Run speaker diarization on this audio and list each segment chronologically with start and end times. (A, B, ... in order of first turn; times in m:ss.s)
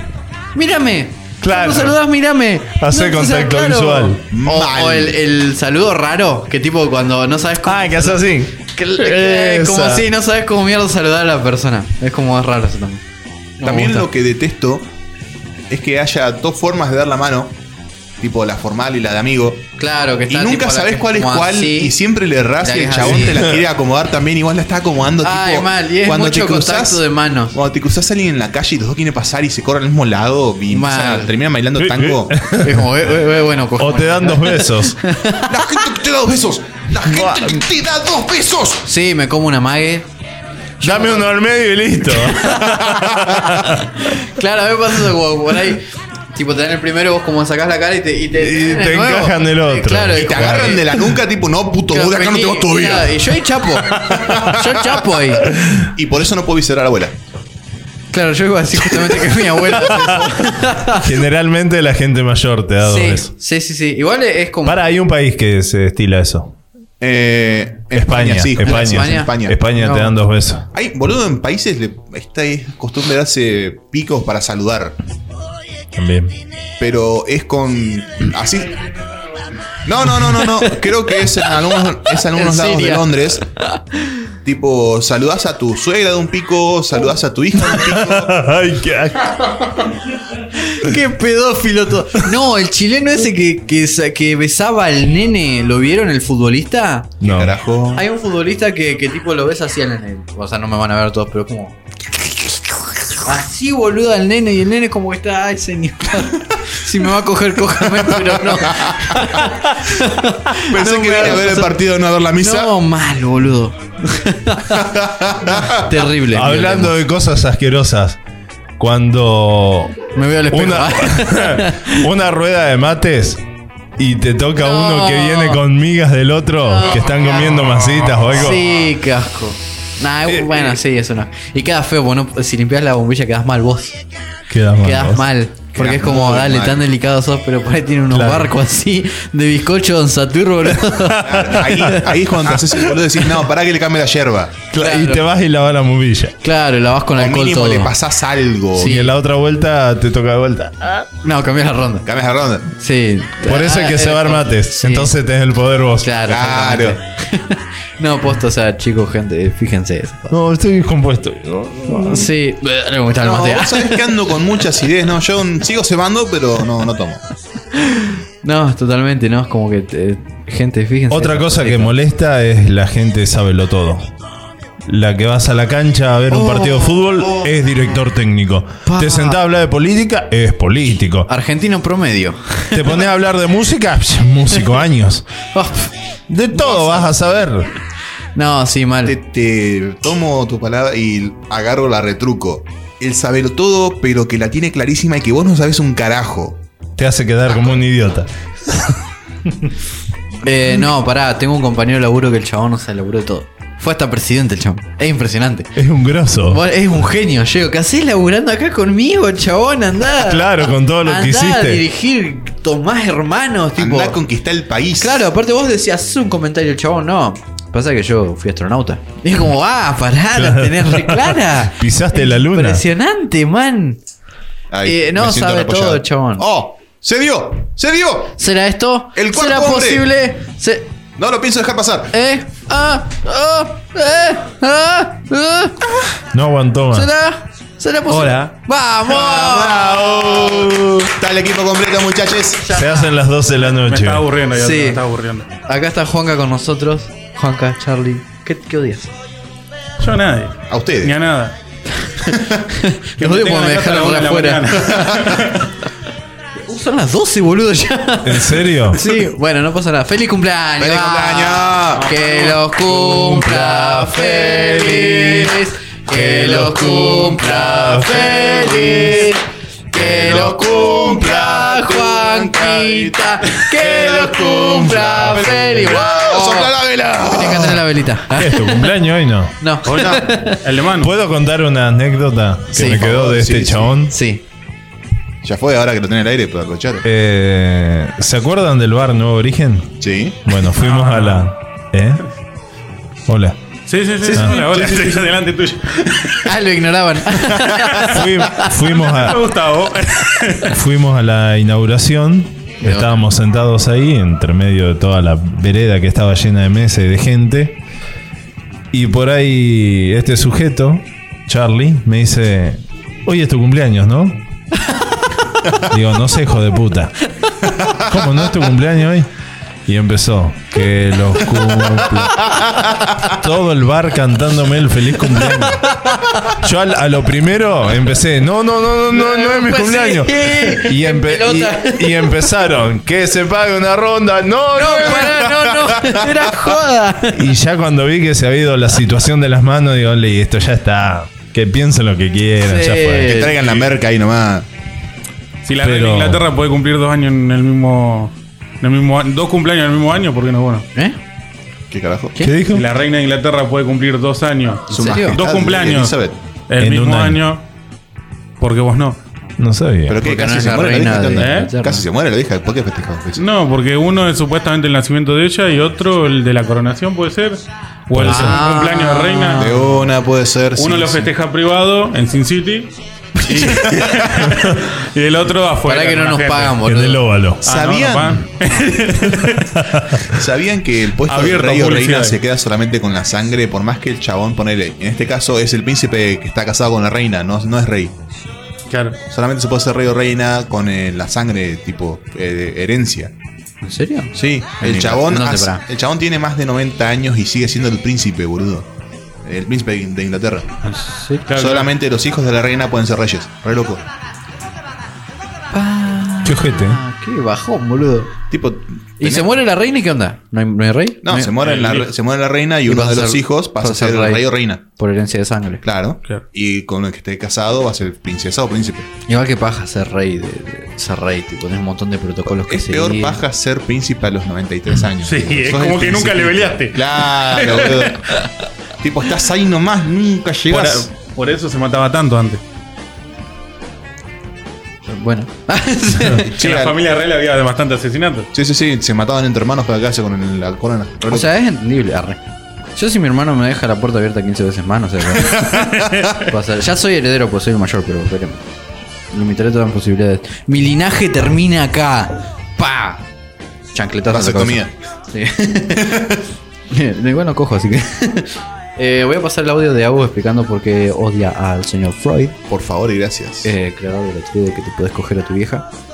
0:00.5-0:13.0 A
0:01.4-0:02.0 B
0:02.8-0:04.2 B
0:04.3-0:05.2 C
0:07.6-0:10.0 B
0:13.6-0:14.1 A
0:13.6-0:14.9 C
0:15.7-0:17.6 C
0:18.2-0:19.7 C
0:19.8-0:22.0 A
0:20.3-0:32.4 C
0:22.6-0:23.4 A
0:23.1-0:23.6 B
0:25.2-0:27.6 A
0:30.7-0:31.3 A
0:31.8-0:33.0 B
0:32.5-0:35.6 A
0:33.8-0:35.0 B
0:35.4-0:38.8 C
0:37.1-0:37.5 B
0:38.8-0:40.1 A
0:40.8-0:41.2 A
0:40.8-0:43.9 B
0:42.1-0:51.0 A
0:48.3-0:50.8 B
0:50.1-0:53.4 C
0:51.9-0:55.4 A
0:54.0-0:55.0 C
0:55.6-0:55.9 B
0:55.7-0:57.2 C
0:58.1-1:01.1 A
0:59.8-1:00.2 B
1:00.8-1:03.3 B
1:02.8-1:04.8 A
1:04.6-1:06.5 B
1:07.0-1:09.6 C
1:07.9-1:10.6 B
1:08.6-1:10.1 A
1:10.7-1:15.0 C
1:16.0-1:16.4 B
1:16.8-1:18.9 C
1:19.8-1:23.4 C
1:22.1-1:24.2 A
1:24.4-1:28.4 C
1:27.7-1:29.8 B
1:30.5-1:37.1 A
1:37.2-1:37.6 B
1:37.2-1:38.0 C
1:37.9-1:41.8 A
1:43.1-1:51.8 A
1:48.7-1:49.0 C
1:50.6-1:52.7 C
1:52.4-1:54.8 A
1:54.7-1:55.7 C
1:55.5-1:56.9 A
1:56.3-1:58.2 B
1:58.8-2:00.0 B
2:00.1-2:02.0 A
2:00.5-2:03.4 B
2:04.0-2:08.7 B
2:04.6-2:05.6 A
2:06.6-2:14.0 A
2:10.3-2:10.8 B
2:14.5-2:15.2 B
2:14.8-2:22.0 A
2:15.8-2:16.9 C
2:18.1-2:18.5 B
2:20.9-2:21.8 B
2:21.2-2:24.6 C
2:24.7-2:26.3 B
2:24.7-2:25.2 A
2:26.4-2:27.9 A
2:27.2-2:29.0 C
2:28.7-2:29.1 A
2:28.8-2:31.1 B
2:31.2-2:32.0 A
2:32.0-2:32.7 C
2:32.8-2:35.1 A
2:33.4-2:36.1 B
2:36.0-2:40.4 A
2:36.3-2:37.0 C
2:40.3-2:42.3 B
2:41.9-2:44.0 A
2:43.2-2:47.2 C
2:47.7-2:51.9 A
2:51.1-2:54.1 B
2:54.9-3:01.3 B
2:56.3-2:57.5 A
2:58.8-2:59.4 A
3:01.2-3:03.0 A
3:02.7-3:05.3 B
3:05.5-3:05.9 A
3:06.3-3:07.7 B
3:06.5-3:07.0 A
3:08.3-3:09.2 A
3:09.0-3:16.6 C
3:17.0-3:18.9 B
3:20.4-3:25.7 A
3:25.8-3:26.6 B
3:26.5-3:34.2 A
3:30.2-3:31.8 B
3:33.8-3:35.2 C
3:35.0-3:44.0 A
3:40.4-3:42.8 B
3:44.7-3:48.4 C
3:44.8-3:46.5 A
3:48.4-3:50.9 A
3:49.1-3:50.1 C
3:51.2-3:52.1 C
3:52.1-3:55.8 A
3:56.3-3:57.1 B
3:56.9-3:59.8 A
3:59.1-4:02.7 C
3:59.5-4:01.1 B
4:02.6-4:03.1 A
4:02.7-4:04.3 B
4:03.6-4:05.5 D
4:04.5-4:05.0 A
4:05.6-4:09.1 A
4:10.0-4:11.5 D
4:10.7-4:11.2 C
4:12.0-4:15.3 A
4:12.3-4:12.6 C
4:13.2-4:15.5 D
4:14.9-4:15.4 C
4:16.6-4:36.7 A
4:18.2-4:19.0 B
4:20.8-4:22.1 C
4:23.1-4:29.1 B
4:29.9-4:37.8 C
4:37.2-4:38.9 A
4:38.3-4:39.6 B
4:39.6-4:40.6 A
4:39.8-4:41.1 D
4:41.0-4:44.1 B
4:42.7-4:43.1 A
4:42.9-4:44.0 C
4:44.1-4:44.4 A
4:45.4-4:47.0 C
4:47.0-4:52.2 B
4:50.0-4:50.4 C
4:50.8-4:51.5 D
4:53.3-4:53.6 B
4:53.9-4:56.4 D
4:54.3-4:55.2 C
4:54.3-4:54.8 B
4:56.4-4:58.7 A
4:57.5-4:57.9 C
4:58.1-4:59.5 B
4:59.0-5:00.8 D
5:00.7-5:07.8 B
5:02.8-5:03.2 A
5:08.9-5:14.5 B
5:15.8-5:17.3 B
5:17.8-5:18.1 C
5:18.0-5:19.3 B
5:19.9-5:35.6 B
5:25.6-5:26.6 A
5:29.1-5:32.5 A
5:34.7-5:37.5 A
5:35.8-5:36.3 C
5:37.3-5:43.3 B
5:42.6-5:43.6 A
5:43.2-5:44.7 C
5:43.6-5:43.9 D
5:45.6-5:50.9 D
5:45.8-5:46.4 B
5:51.9-5:52.4 C
5:52.4-5:52.8 B
5:52.7-5:56.2 D
5:54.9-5:55.4 A
5:54.9-5:56.4 C
5:56.7-5:57.6 D
5:56.8-5:57.4 B
5:58.6-5:59.2 D
5:59.6-6:00.2 B
6:00.1-6:03.4 C
6:00.2-6:02.0 A
6:01.4-6:01.7 D
6:03.4-6:09.6 D
6:08.1-6:08.6 B
6:08.2-6:10.0 A
6:09.6-6:11.3 C
6:10.7-6:12.9 D
6:13.5-6:16.8 D
6:13.5-6:14.3 C
6:15.8-6:17.2 A
6:16.8-6:17.6 B
6:17.6-6:19.7 D
6:17.6-6:18.5 C
6:19.7-6:20.2 B
6:20.3-6:28.2 C
6:21.2-6:22.4 D
6:28.9-6:29.2 D
6:29.3-6:33.3 C
6:33.8-6:35.8 A
6:34.3-6:38.9 C
6:39.4-6:40.8 C
6:40.9-6:41.4 A
6:41.5-6:41.9 D
6:41.5-6:44.0 C
6:45.7-6:48.3 A
6:46.4-6:47.0 B
6:48.5-6:49.5 C
6:49.2-6:51.5 A
6:51.2-6:54.8 C
6:51.6-6:52.1 D
6:52.9-6:55.8 A
6:55.8-6:59.1 C
6:59.3-7:03.4 A
7:02.5-7:08.3 C
7:05.2-7:08.5 D
7:09.0-7:11.1 C
7:10.7-7:12.6 D
7:15.1-7:16.5 A
7:16.5-7:17.0 C
7:16.5-7:18.5 D
7:18.5-7:21.5 C
7:21.3-7:22.4 A
7:23.0-7:28.6 A
7:25.4-7:26.3 C
7:29.3-7:33.2 A
7:33.9-7:36.3 A
7:34.3-7:34.9 C
7:35.9-7:36.4 C
7:36.9-7:42.6 A
7:42.7-7:43.7 C
7:43.6-7:45.9 A